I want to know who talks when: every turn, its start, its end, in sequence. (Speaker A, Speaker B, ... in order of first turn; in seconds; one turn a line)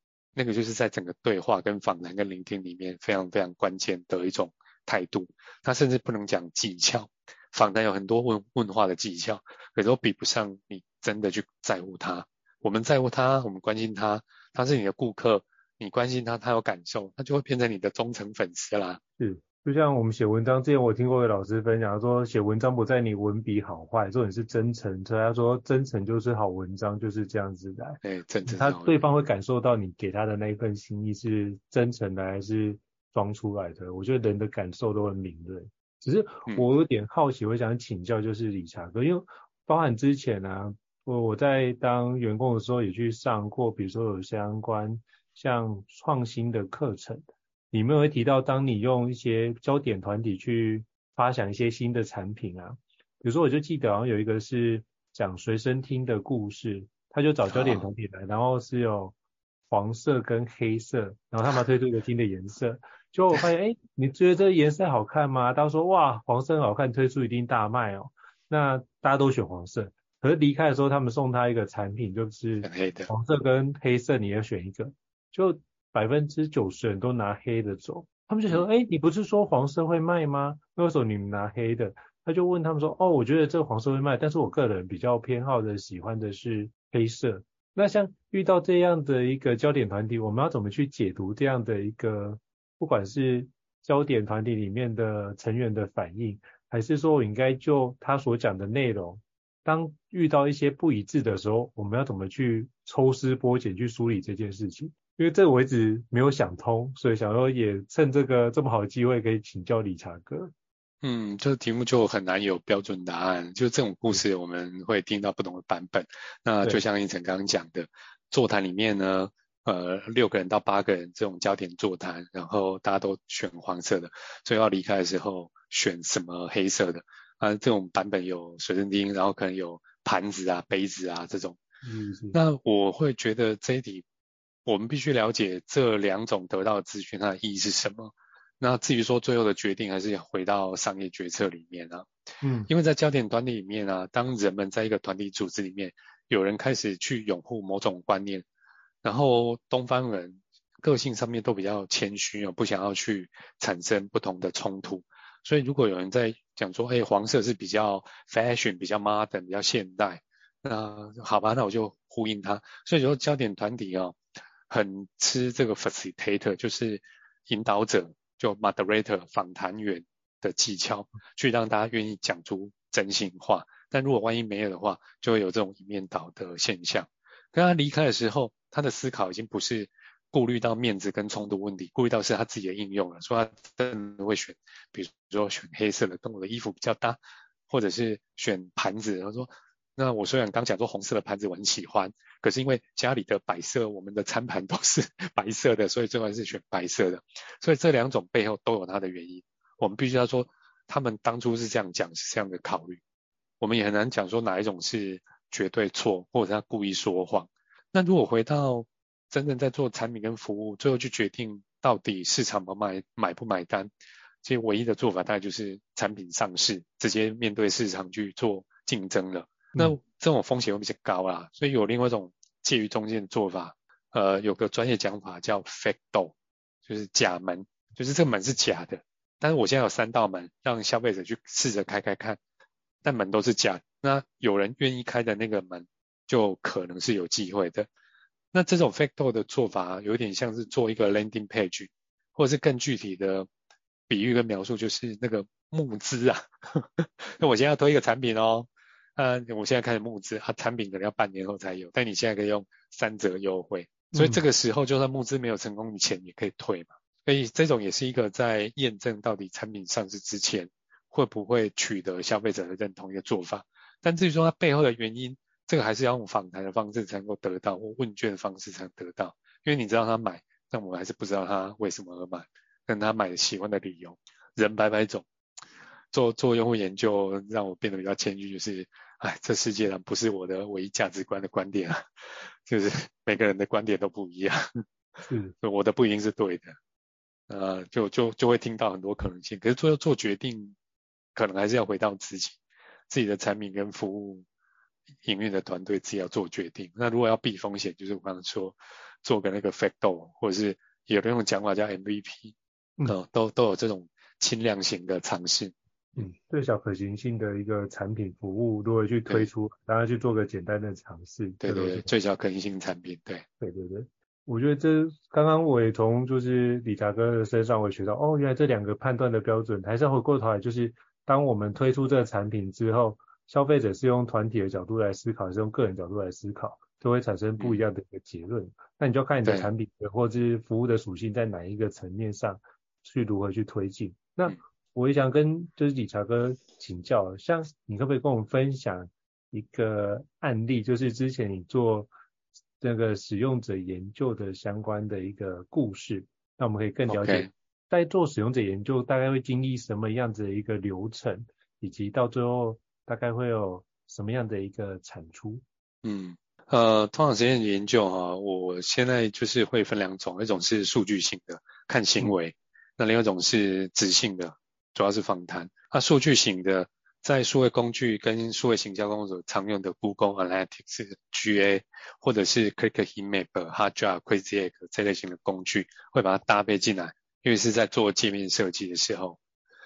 Speaker A: 0.3-19.0
Speaker B: 19.2-59.1
Speaker A: 28.0-28.9
Speaker A: 57.5-57.9
Speaker B: 59.7-110.5
Speaker A: 72.6-73.1
Speaker A: 111.0-131.6
Speaker B: 131.8-132.4
Speaker A: 132.3-134.0
Speaker A: 134.6-142.1
Speaker B: 142.4-142.7
Speaker A: 142.7-148.4
Speaker A: 149.0-164.2
Speaker A: 164.7-203.0
Speaker A: 203.6-213.9
Speaker A: 214.4-232.4
Speaker A: 233.0-237.9
Speaker A: 238.5-243.5
Speaker A: 244.1-275.2
Speaker B: 254.1-254.4
Speaker A: 276.1-282.0
Speaker A: 282.6-284.7
Speaker B: 285.2-285.5
Speaker A: 285.6-286.7
Speaker A: 287.5-290.8
Speaker A: 291.3-292.6
Speaker A: 293.1-294.4
Speaker A: 295.2-306.3
Speaker B: 306.1-312.1
Speaker A: 311.6-313.4
Speaker B: 313.6-342.1
Speaker A: 327.6-327.9
Speaker A: 329.4-329.7
Speaker B: 342.8-355.6
Speaker A: 347.1-347.5
Speaker A: 356.0-379.4